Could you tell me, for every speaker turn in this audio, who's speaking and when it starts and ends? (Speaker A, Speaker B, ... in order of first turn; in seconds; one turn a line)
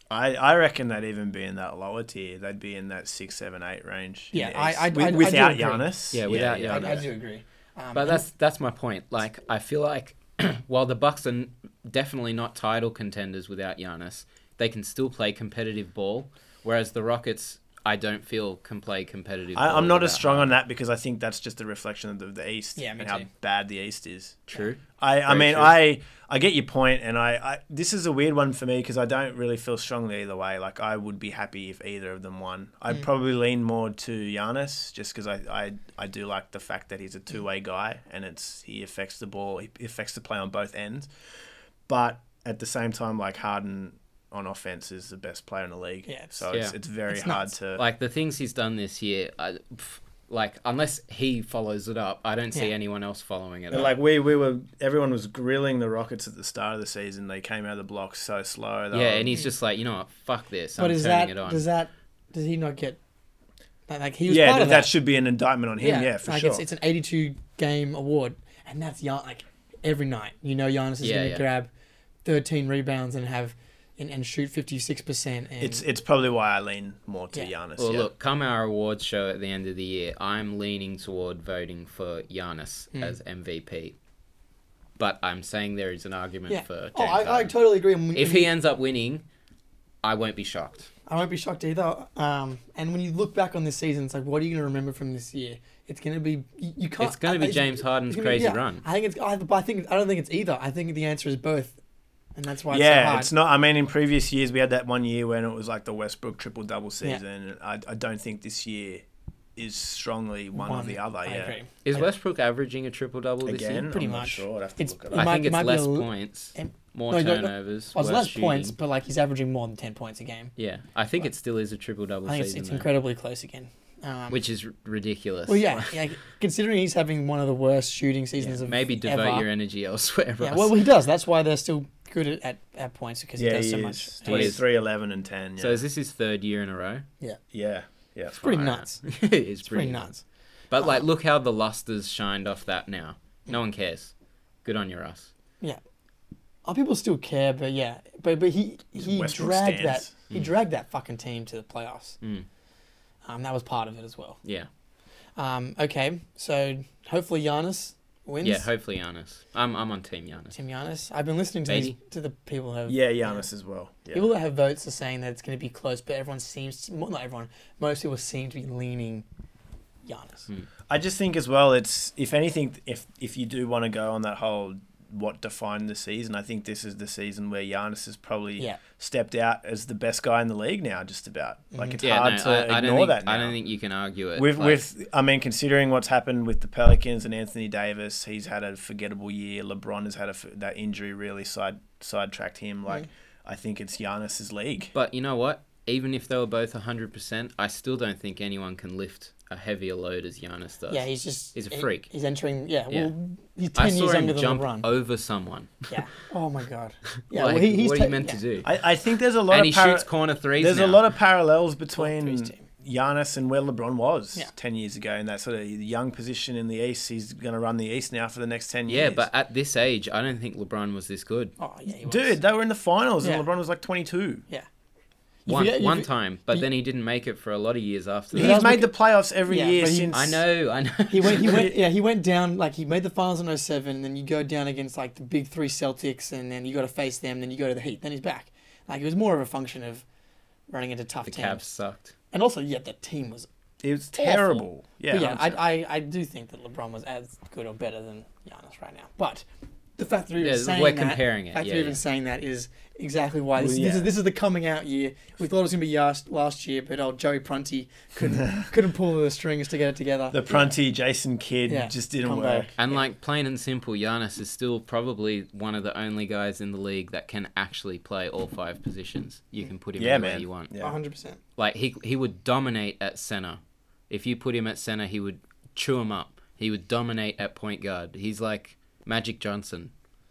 Speaker A: 0.1-7.0
Speaker B: 4.3-5.9
Speaker C: 6.1-7.1
Speaker B: 6.6-8.2
Speaker C: 7.9-20.6
Speaker A: 19.6-24.4
Speaker B: 22.8-23.3
Speaker C: 24.5-25.8
Speaker A: 25.0-41.1
Speaker A: 41.9-47.8
Speaker B: 46.1-46.4
Speaker B: 47.1-47.5
Speaker C: 47.8-53.9
Speaker A: 53.7-59.4
Speaker C: 58.9-61.6
Speaker B: 60.8-63.0
Speaker B: 63.9-64.9
Speaker A: 64.3-66.6
Speaker B: 65.8-71.7
Speaker C: 71.0-71.4
Speaker B: 72.2-75.8
Speaker A: 75.6-78.1
Speaker C: 77.8-84.0
Speaker C: 85.0-87.6
Speaker B: 86.5-88.5
Speaker C: 88.1-89.2
Speaker C: 90.0-90.9
Speaker B: 91.1-101.8
Speaker C: 97.0-98.8
Speaker B: 102.4-103.3
Speaker A: 102.7-109.0
Speaker A: 109.6-111.6
Speaker B: 110.5-112.1
Speaker C: 111.8-113.9
Speaker A: 113.4-115.3
Speaker B: 113.9-120.5
Speaker C: 115.1-118.8
Speaker C: 120.6-122.9
Speaker B: 122.2-124.4
Speaker C: 124.3-126.0
Speaker B: 125.5-129.5
Speaker C: 128.4-130.8
Speaker B: 130.4-134.6
Speaker A: 133.4-135.8
Speaker C: 134.2-134.6
Speaker C: 135.6-137.1
Speaker A: 137.5-138.4
Speaker C: 138.3-140.1
Speaker B: 138.4-139.1
Speaker B: 139.7-140.2
Speaker C: 140.7-144.1
Speaker C: 144.6-145.3
Speaker B: 146.7-152.2
Speaker A: 149.0-150.1
Speaker C: 152.2-152.5
Speaker B: 153.3-154.4
Speaker C: 154.4-154.7
Speaker B: 155.4-158.7
Speaker C: 158.4-160.6
Speaker B: 160.5-163.4
Speaker C: 161.7-161.9
Speaker A: 162.9-164.3
Speaker B: 164.1-169.2
Speaker B: 170.1-170.5
Speaker A: 170.9-183.6
Speaker B: 181.7-182.0
Speaker C: 182.0-184.8
Speaker A: 184.3-194.9
Speaker C: 194.9-202.1
Speaker B: 200.9-204.9
Speaker C: 203.8-206.0
Speaker B: 205.9-208.4
Speaker C: 207.3-208.7
Speaker A: 208.6-219.3
Speaker C: 209.5-211.1
Speaker B: 212.0-212.6
Speaker C: 218.9-221.6
Speaker B: 221.6-222.4
Speaker A: 222.0-224.4
Speaker B: 225.5-226.7
Speaker C: 225.5-228.7
Speaker B: 228.3-228.9
Speaker A: 228.3-230.4
Speaker B: 229.5-230.2
Speaker C: 230.1-231.7
Speaker B: 231.1-240.0
Speaker B: 240.7-241.6
Speaker C: 241.3-242.1
Speaker B: 242.3-243.5
Speaker A: 243.8-245.6
Speaker B: 244.2-249.4
Speaker B: 250.0-260.4
Speaker C: 250.4-252.0
Speaker A: 253.6-254.1
Speaker A: 260.3-262.7
Speaker B: 261.7-263.0
Speaker C: 262.8-270.7
Speaker A: 270.0-271.0
Speaker B: 270.8-271.4
Speaker C: 271.6-279.9